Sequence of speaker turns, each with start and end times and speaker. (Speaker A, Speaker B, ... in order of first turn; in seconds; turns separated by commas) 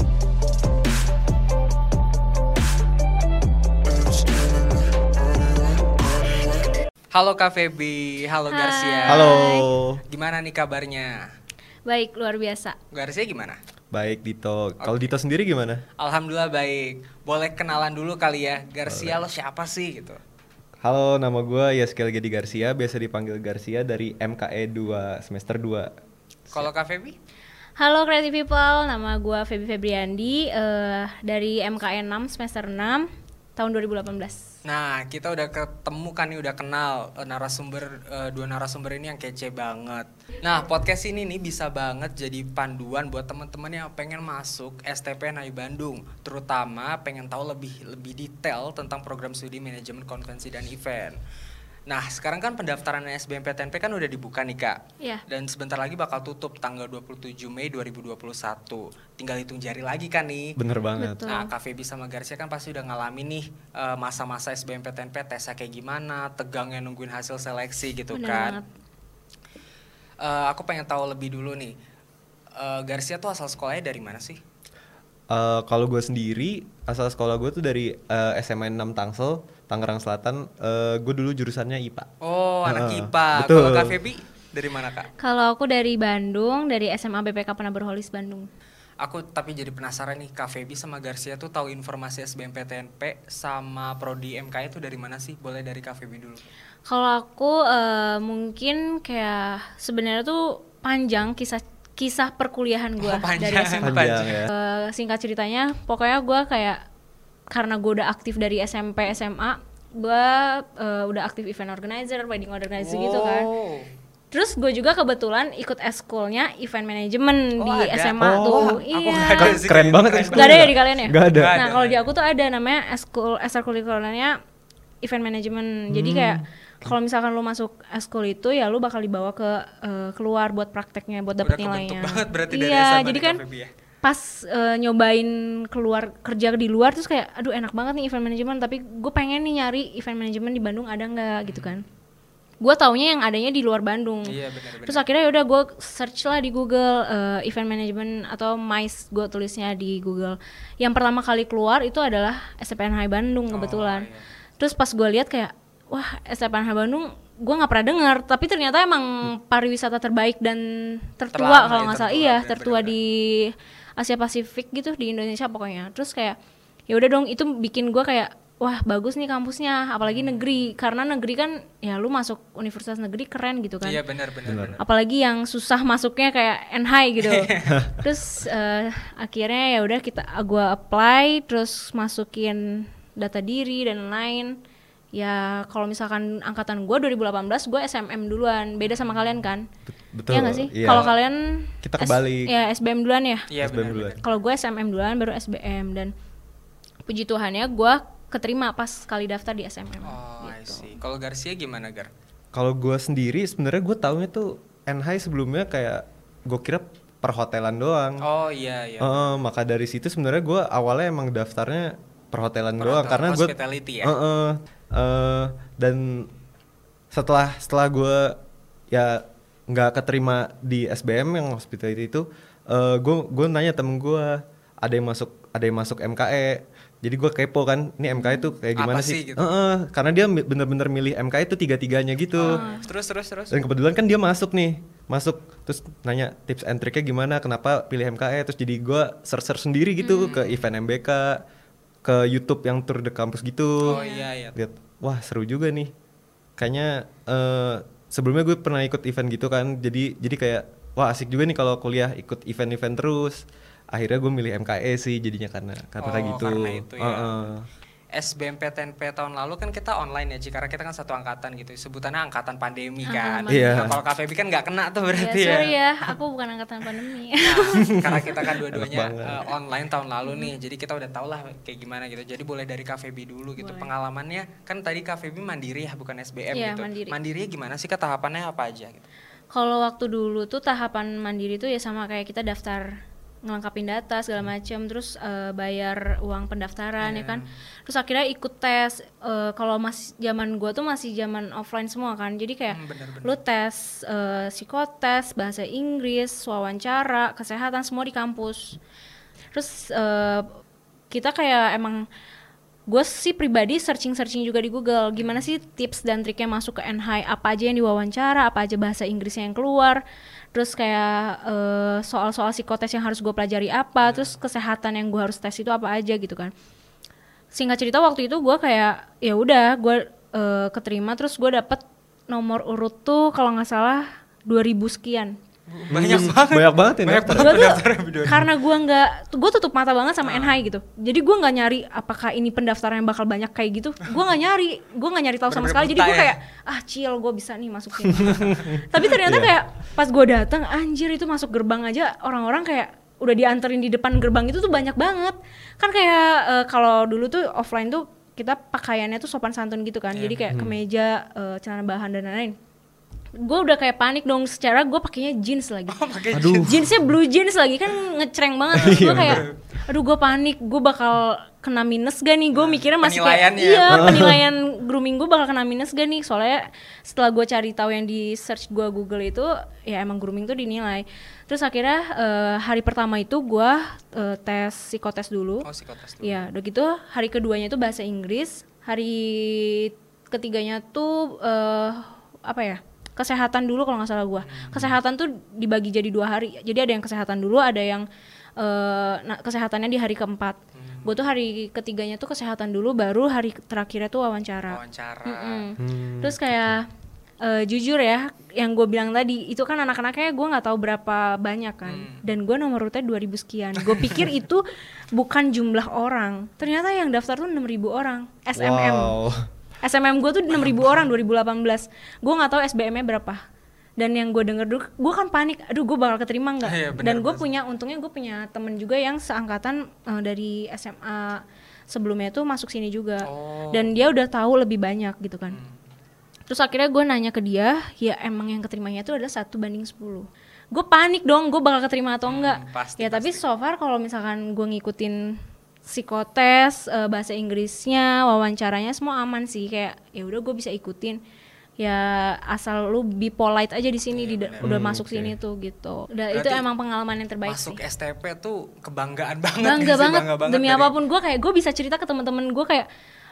Speaker A: 7.1-9.4, Speaker B: 8.5-9.7, Speaker C: 9.1-10.0, Speaker A: 10.1-11.2, Speaker B: 11.8-12.8, Speaker A: 12.9-13.6, Speaker C: 13.9-15.8, Speaker A: 14.8-15.1, Speaker A: 16.0-20.2, Speaker C: 18.9-19.2, Speaker C: 20.8-25.9, Speaker A: 26.5-27.2, Speaker B: 27.8-34.4, Speaker A: 34.6-51.2, Speaker A: 51.9-60.6, Speaker C: 60.5-61.2, Speaker B: 61.0-61.5, Speaker A: 61.3-68.6, Speaker B: 68.1-68.7, Speaker A: 70.2-71.7, Speaker A: 72.6-74.4, Speaker C: 75.3-82.1, Speaker A: 82.2-85.1, Speaker C: 82.7-84.0, Speaker B: 85.2-88.5, Speaker A: 89.0-96.5, Speaker B: 96.9-106.8, Speaker A: 103.0-104.4, Speaker C: 103.8-104.5, Speaker B: 107.5-113.5, Speaker A: 112.8-113.9, Speaker B: 114.3-119.6, Speaker A: 117.6-122.0, Speaker C: 118.2-118.8, Speaker C: 119.3-121.6, Speaker B: 120.3-124.3, Speaker B: 125.0-133.4, Speaker C: 125.9-126.9, Speaker A: 131.4-133.7, Speaker B: 134.0-141.8, Speaker A: 141.4-141.8, Speaker B: 142.6-154.1, Speaker A: 144.3-145.0, Speaker A: 153.5-154.2, Speaker B: 154.6-166.4, Speaker A: 161.3-162.9, Speaker B: 166.9-174.0, Speaker A: 170.1-170.4, Speaker A: 173.8-174.8, Speaker C: 174.5-174.8, Speaker B: 174.8-184.6, Speaker A: 177.2-177.7, Speaker B: 185.1-189.7, Speaker A: 188.8-189.2, Speaker C: 190.1-191.1, Speaker B: 190.3-193.5, Speaker A: 190.8-191.1, Speaker C: 191.8-192.5, Speaker A: 193.5-194.2, Speaker C: 193.6-194.2, Speaker B: 194.2-196.1, Speaker B: 197.1-200.9, Speaker A: 200.0-202.1, Speaker C: 202.5-208.2, Speaker A: 208.2-209.3, Speaker C: 209.0-216.3, Speaker A: 212.8-214.1, Speaker C: 217.1-218.4, Speaker C: 218.9-232.6, Speaker B: 228.1-228.5, Speaker A: 228.7-229.5, Speaker A: 232.4-233.6, Speaker B: 232.4-232.8, Speaker C: 233.5-241.4, Speaker B: 240.0-240.3, Speaker A: 240.2-240.7, Speaker C: 242.0-244.0, Speaker A: 243.8-244.5, Speaker B: 243.9-244.2, Speaker C: 244.5-245.9, Speaker C: 246.6-257.7, Speaker A: 256.0-257.3, Speaker A: 258.1-266.1, Speaker B: 263.1-263.8, Speaker C: 263.5-264.0, Speaker B: 265.1-268.1, Speaker A: 267.4-279.1, Speaker C: 267.9-269.5, Speaker B: 270.3-270.5, Speaker B: 273.6-273.9, Speaker B: 276.5-277.1, Speaker B: 279.5-282.9, Speaker B: 283.4-298.8, Speaker A: 287.0-287.5, Speaker A: 292.7-293.4, Speaker B: 299.5-300.5, Speaker B: 301.1-302.1, Speaker B: 302.9-310.0, Speaker A: 305.2-305.4, Speaker B: 310.5-316.5, Speaker A: 314.0-314.3, Speaker B: 317.5-325.3, Speaker A: 325.7-328.5, Speaker C: 325.9-327.6, Speaker B: 327.3-352.5, Speaker A: 330.2-330.6, Speaker A: 335.5-336.4, Speaker C: 338.0-339.5, Speaker A: 350.1-350.5, Speaker B: 353.4-375.7, Speaker A: 355.9-356.9, Speaker C: 356.3-356.9, Speaker C: 358.7-359.4, Speaker A: 358.9-359.5, Speaker A: 362.5-364.2, Speaker C: 363.9-364.4, Speaker A: 375.6-376.4, Speaker B: 376.2-388.1, Speaker A: 384.4-384.9, Speaker B: 388.6-396.9, Speaker A: 390.7-391.1, Speaker A: 394.7-395.7, Speaker C: 395.8-396.7, Speaker B: 397.4-409.2, Speaker A: 401.8-402.2, Speaker A: 403.8-404.2, Speaker C: 408.6-409.5, Speaker B: 409.8-413.4, Speaker A: 410.5-411.0, Speaker B: 414.0-425.6, Speaker A: 416.6-417.4, Speaker A: 423.2-423.9, Speaker A: 425.5-425.8, Speaker B: 426.5-441.2, Speaker A: 432.3-433.4, Speaker B: 441.8-447.8, Speaker A: 444.1-444.7, Speaker C: 444.6-445.3, Speaker A: 446.3-446.6, Speaker A: 447.4-450.9, Speaker B: 449.6-452.9